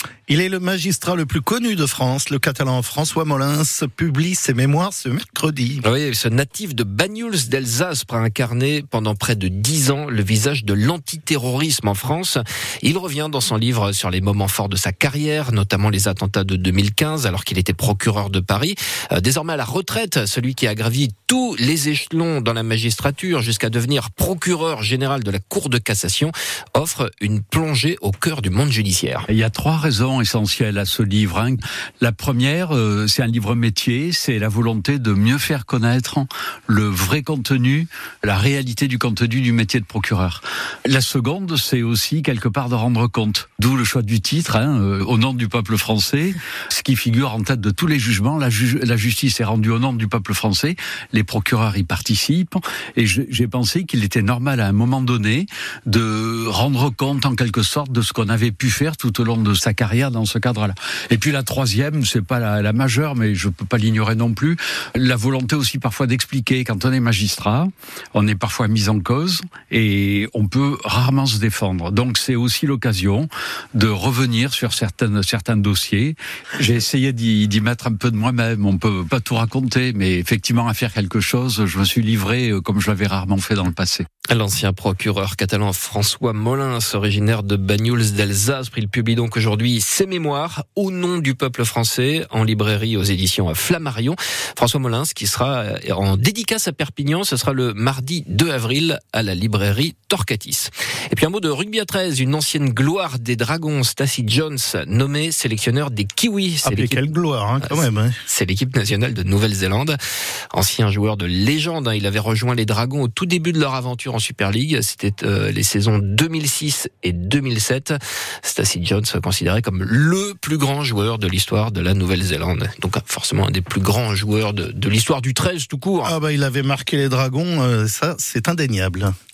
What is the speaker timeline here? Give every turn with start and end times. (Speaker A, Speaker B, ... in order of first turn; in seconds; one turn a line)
Speaker A: 0.3-5.8
Speaker B: 5.8-29.2
Speaker C: 29.3-84.0
Speaker B: 84.3-107.0
Speaker A: 106.6-108.1
Speaker B: 107.6-110.0
Speaker B: 110.5-126.1
Speaker A: 126.0-129.1